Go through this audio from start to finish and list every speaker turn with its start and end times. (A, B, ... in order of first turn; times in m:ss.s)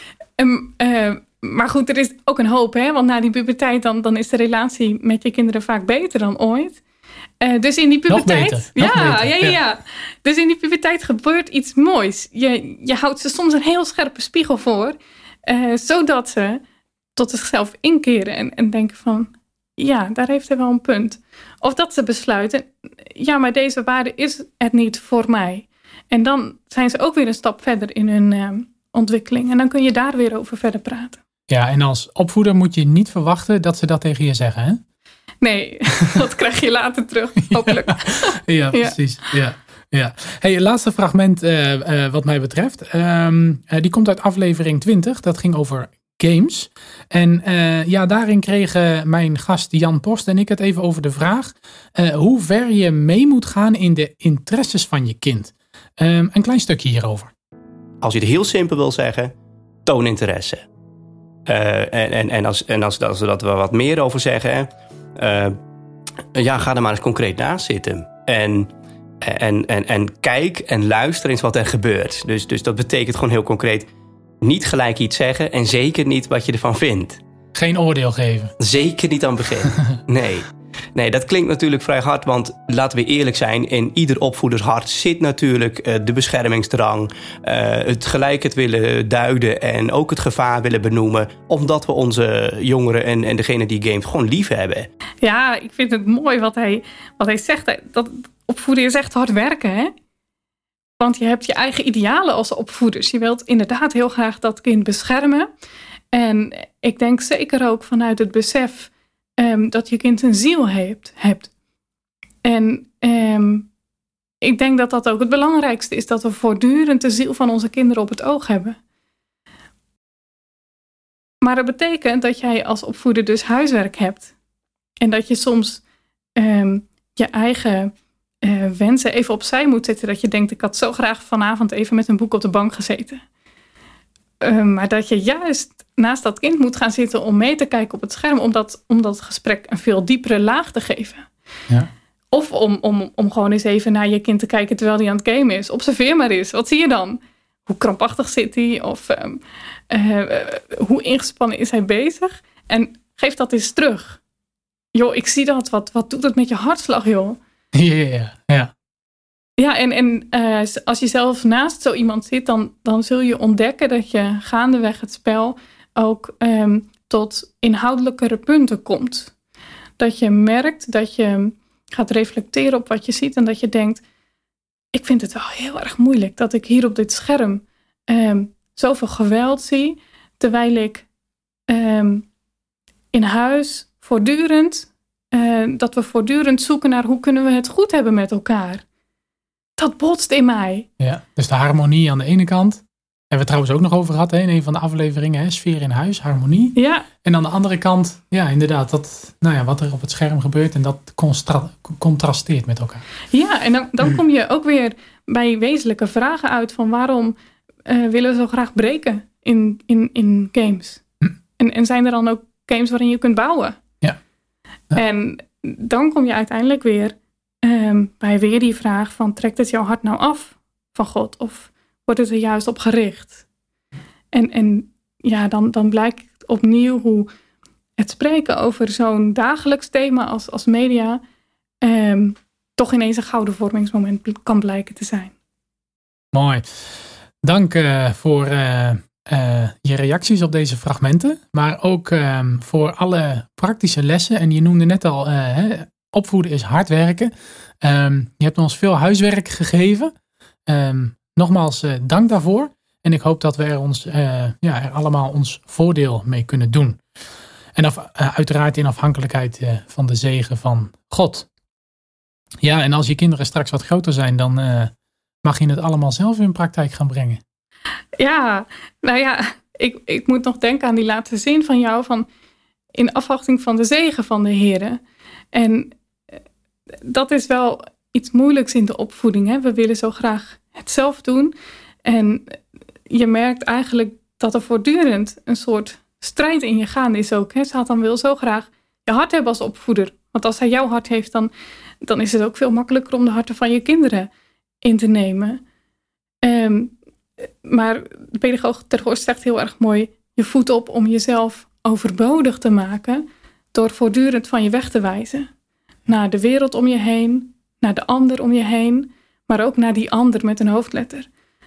0:00.4-0:06.8 A
0:07.4-0:16.6 A
0:08.1-0:09.6 B
0:17.2-0:31.2 A
0:31.5-0:34.8 B
0:35.4-0:39.0 A
0:37.5-0:57.3 B
0:58.0-0:59.3 C
0:59.9-1:00.6 C
1:01.5-1:05.6 C
1:06.4-1:08.7 C
1:09.2-1:13.9 C
1:14.4-1:17.2 C
1:17.5-1:18.5 B
1:18.6-1:34.9 C
1:35.2-1:39.9 A
1:41.0-1:45.5 A
1:46.1-1:51.5 A
1:52.4-1:53.7 A
1:54.4-1:58.8 A
2:01.4-2:04.3 A
2:05.0-2:05.8 A
2:06.4-2:07.9 A
2:08.4-2:13.2 A
2:14.4-2:21.3 A
2:22.3-2:34.2 A
2:35.0-2:37.4 A
2:37.7-2:38.7 B
2:39.6-2:49.3 A
2:50.0-2:54.0 A
2:54.9-3:01.1 A
3:01.7-3:02.2 A
3:03.1-3:08.8 A
3:09.8-3:10.9 A
3:11.0-3:23.0 B
3:16.8-3:17.1 A
3:23.3-3:27.4 A
3:27.9-3:31.0 A
3:31.6-3:33.8 A
3:34.9-3:43.4 A
3:44.3-3:47.3 A
3:48.0-3:51.2 A
3:51.8-3:55.3 A
3:56.3-3:56.7 B
3:57.4-4:10.1 B
4:10.7-4:17.0 B
4:17.8-4:21.5 B
4:22.6-4:24.9 B
4:25.4-4:27.4 B
4:28.2-4:32.3 A
4:33.0-4:35.0 A
4:35.5-4:36.0 A
4:37.0-4:41.5 A
4:42.0-4:42.6 A
4:43.1-4:51.5 A
4:52.0-4:54.3 A
4:54.8-4:55.6 A
4:56.4-4:56.9 A
4:57.6-5:05.5 A
5:06.1-5:11.3 A